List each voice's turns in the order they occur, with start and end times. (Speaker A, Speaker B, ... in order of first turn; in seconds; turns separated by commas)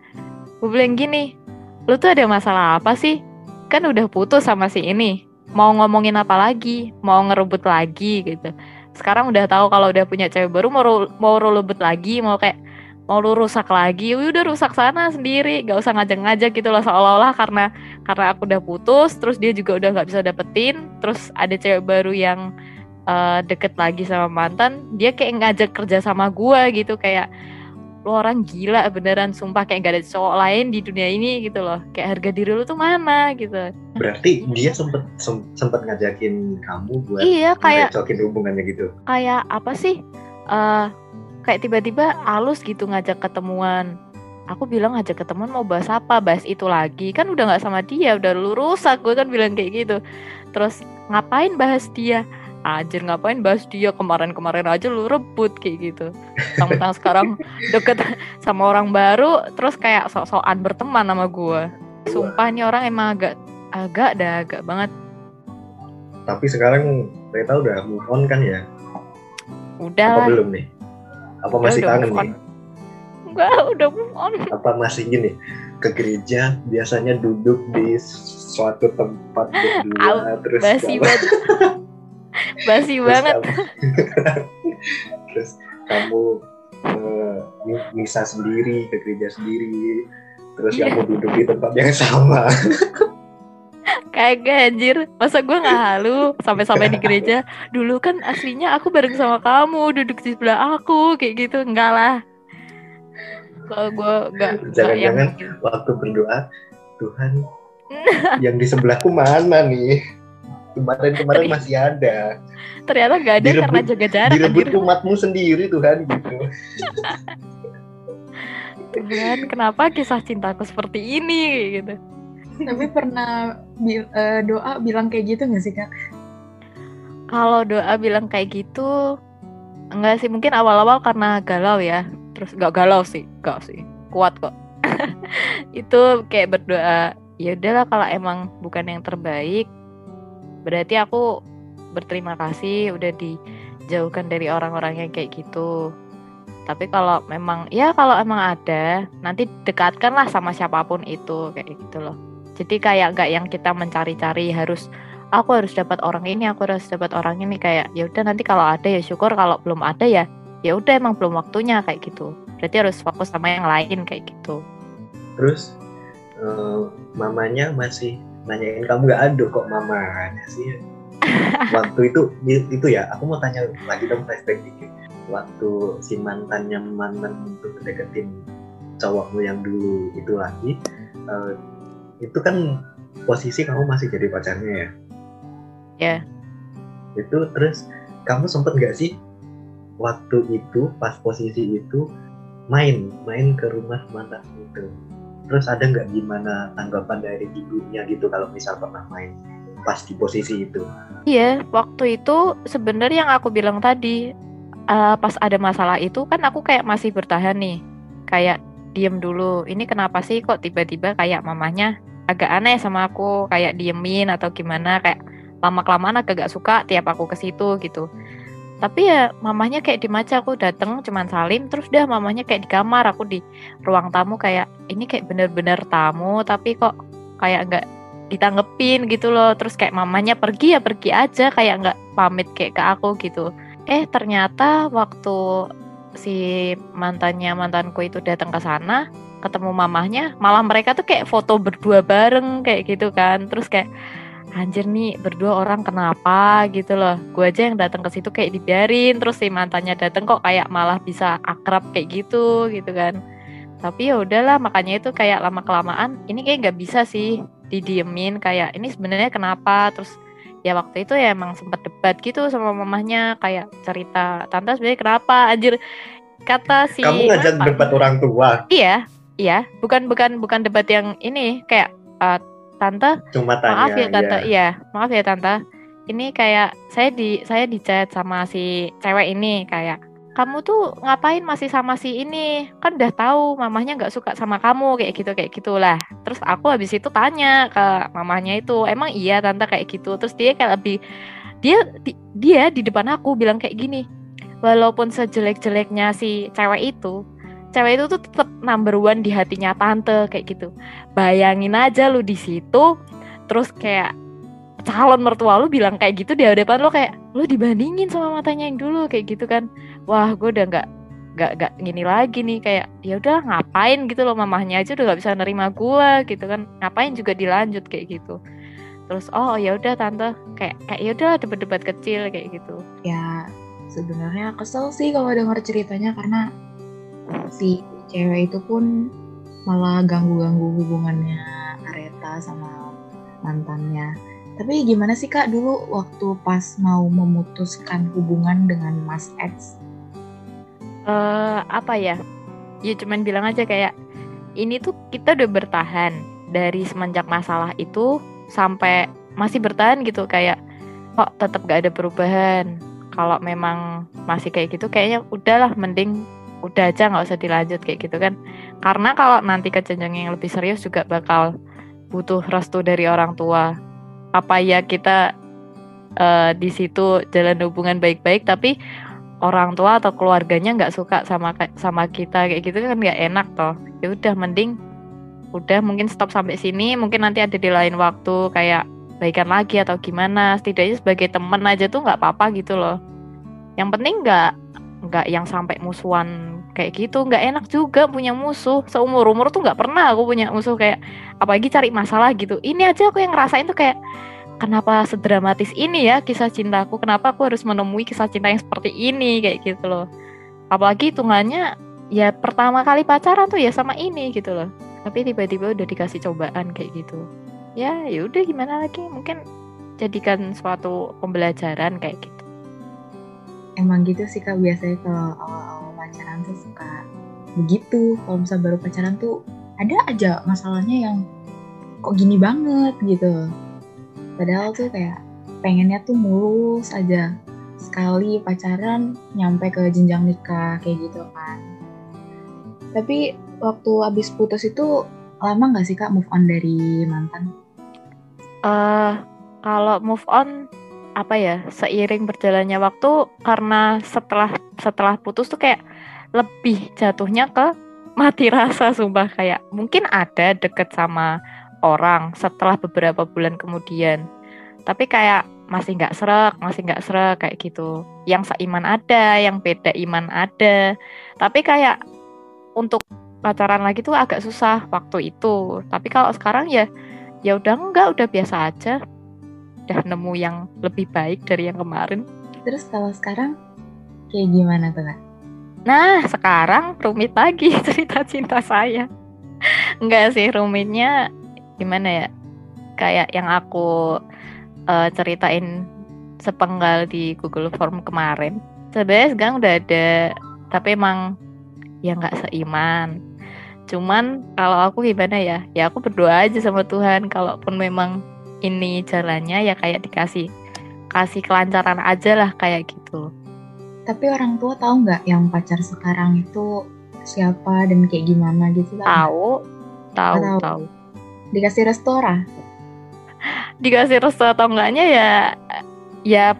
Speaker A: 0.6-1.2, Speaker A: 1.9-3.1, Speaker A: 3.7-12.5, Speaker A: 13.1-22.4, Speaker A: 23.1-27.2, Speaker A: 28.1-34.8, Speaker B: 34.0-38.9, Speaker A: 37.2-37.9, Speaker A: 39.1-39.9, Speaker A: 40.5-40.9, Speaker A: 41.5-43.9, Speaker A: 44.5-50.0, Speaker A: 50.5-56.1, Speaker A: 56.6-64.9, Speaker B: 62.0-62.4, Speaker B: 66.3-68.6, Speaker A: 69.8-70.3, Speaker B: 70.1-70.7, Speaker B: 71.5-72.3, Speaker A: 71.6-72.3, Speaker A: 73.3-74.4, Speaker B: 74.5-81.7, Speaker A: 80.0-81.2, Speaker A: 82.5-83.4, Speaker B: 83.0-83.5, Speaker B: 85.3-86.3, Speaker B: 86.9-89.9, Speaker B: 90.6-92.5, Speaker A: 94.1-102.1, Speaker B: 96.7-97.3, Speaker A: 103.7-105.5, Speaker B: 104.7-106.4, Speaker B: 107.0-107.4, Speaker A: 108.0-108.3, Speaker B: 108.4-109.9, Speaker B: 110.8-112.2, Speaker A: 111.3-111.6, Speaker A: 112.9-114.8, Speaker B: 113.4-117.2, Speaker A: 118.9-122.0, Speaker C: 122.7-123.3, Speaker C: 123.8-125.9, Speaker A: 127.4-128.9, Speaker A: 130.0-135.0, Speaker A: 135.8-139.7, Speaker A: 140.7-141.2, Speaker A: 142.0-143.3, Speaker A: 143.9-145.7, Speaker A: 146.7-154.8, Speaker A: 155.4-164.6, Speaker B: 165.4-165.7, Speaker B: 166.4-170.7, Speaker B: 171.7-178.3, Speaker B: 179.0-180.7, Speaker B: 182.2-182.6, Speaker B: 183.3-184.9, Speaker B: 187.2-189.1, Speaker B: 190.0-192.0, Speaker B: 192.7-194.9, Speaker B: 195.5-199.3, Speaker B: 199.9-200.8, Speaker A: 201.3-204.1, Speaker A: 204.9-207.7, Speaker A: 208.3-218.0, Speaker A: 218.8-226.9, Speaker A: 227.4-227.8, Speaker A: 228.3-235.3, Speaker A: 237.0-243.8, Speaker A: 244.6-253.1, Speaker A: 253.8-260.1, Speaker A: 260.7-265.8, Speaker A: 266.5-267.9, Speaker B: 267.0-268.6, Speaker A: 268.7-273.1, Speaker B: 273.3-274.4, Speaker A: 273.7-275.6, Speaker A: 276.1-290.9, Speaker A: 291.6-294.0, Speaker A: 294.6-297.1, Speaker A: 297.7-302.9, Speaker A: 303.5-304.1, Speaker A: 304.9-310.8, Speaker A: 311.4-318.3, Speaker A: 319.1-322.8, Speaker C: 323.9-326.4, Speaker C: 327.5-328.9, Speaker C: 329.7-332.9, Speaker C: 333.4-339.8, Speaker A: 341.1-342.2, Speaker A: 342.9-343.9, Speaker A: 344.6-348.1, Speaker A: 348.6-350.6, Speaker A: 351.2-353.8, Speaker A: 354.3-356.1, Speaker A: 356.7-358.3, Speaker A: 358.9-361.4, Speaker A: 362.1-363.6, Speaker A: 364.4-365.2, Speaker A: 366.2-368.7, Speaker A: 369.5-374.7, Speaker A: 375.6-382.9, Speaker A: 383.8-384.4, Speaker A: 385.1-393.9, Speaker A: 394.6-400.0, Speaker A: 400.7-401.6, Speaker A: 402.2-407.2, Speaker A: 407.8-409.4, Speaker A: 410.0-412.4, Speaker C: 413.8-417.0, Speaker C: 417.6-419.3, Speaker C: 419.8-421.2, Speaker C: 422.1-423.3, Speaker C: 424.4-427.2, Speaker C: 427.8-431.6, Speaker C: 432.9-434.9, Speaker C: 435.4-437.5, Speaker A: 438.7-439.1, Speaker A: 439.7-440.5, Speaker A: 441.2-445.8, Speaker A: 446.4-447.7, Speaker A: 448.2-451.3, Speaker A: 451.9-454.2, Speaker A: 454.9-460.7, Speaker A: 461.4-461.9, Speaker A: 462.8-466.9, Speaker A: 467.5-468.9, Speaker A: 469.9-472.2, Speaker C: 472.6-473.5, Speaker C: 474.3-475.2, Speaker A: 475.9-479.1, Speaker A: 480.0-481.1, Speaker A: 481.8-482.2, Speaker A: 483.0-483.8, Speaker A: 484.9-485.6, Speaker A: 486.4-490.0, Speaker A: 490.7-491.2, Speaker A: 492.1-493.1, Speaker A: 493.9-498.1, Speaker A: 498.7-500.4, Speaker A: 501.1-503.2, Speaker C: 504.1-506.7, Speaker C: 507.3-509.3, Speaker A: 509.1-509.5, Speaker A: 510.2-510.8, Speaker C: 510.3-510.8, Speaker C: 511.5-512.4, Speaker A: 513.8-515.3